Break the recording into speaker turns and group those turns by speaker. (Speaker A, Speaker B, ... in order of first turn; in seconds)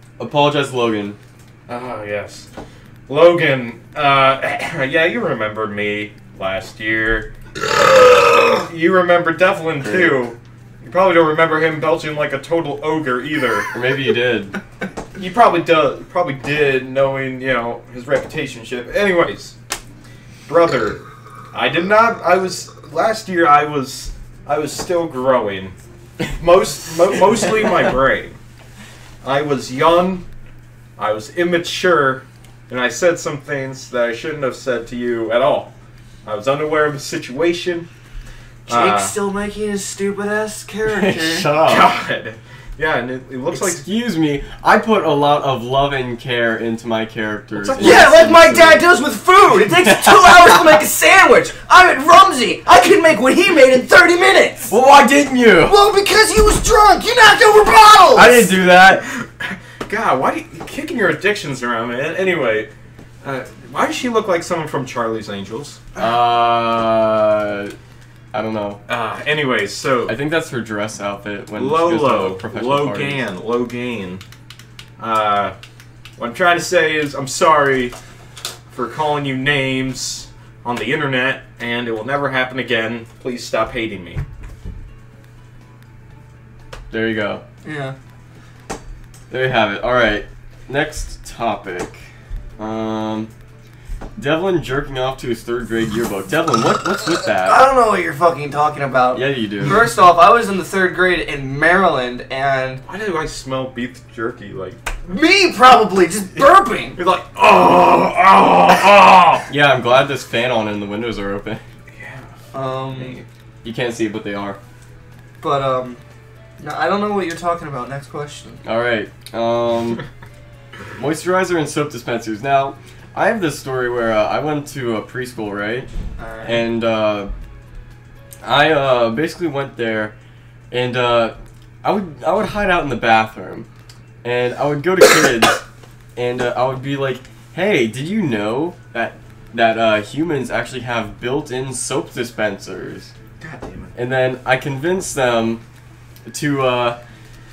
Speaker A: 0.2-1.2, 9.8-10.2, 13.7-14.6, 40.9-42.0, 43.5-48.8, 49.7-50.6, 54.7-55.8, 58.1-59.0, 66.0-67.7, 68.3-68.8, 70.1-73.2, 86.9-87.4, 89.3-92.0, 92.6-93.3, 94.2-97.6, 99.1-99.8, 109.5-111.6, 113.6-114.6, 118.6-120.0, 121.0-125.9, 126.4-127.3, 128.4-130.1, 130.7-133.7, 134.2-135.6, 136.2-143.1, 143.9-145.6, 146.3-147.0
Speaker B: 1.7-2.5, 3.1-13.7, 15.2-19.6, 20.5-21.0, 21.5-25.8, 26.4-28.4, 29.2-30.2, 31.0-35.7, 36.2-37.9, 38.7-39.1, 41.6-43.8, 47.5-48.2, 58.7-62.7, 63.2-65.8, 68.9-70.1, 71.6-74.2, 75.0-75.5, 76.2-78.0, 78.7-84.2, 102.9-104.8, 107.0-109.5, 111.9-112.3, 112.9-113.3, 143.4-143.9
Speaker C: 38.7-41.5, 47.8-54.7, 55.6-58.5, 87.6-88.0, 97.3-102.8, 105.1-107.0, 112.5-113.2, 115.4-116.0, 116.6-118.6, 126.2-126.6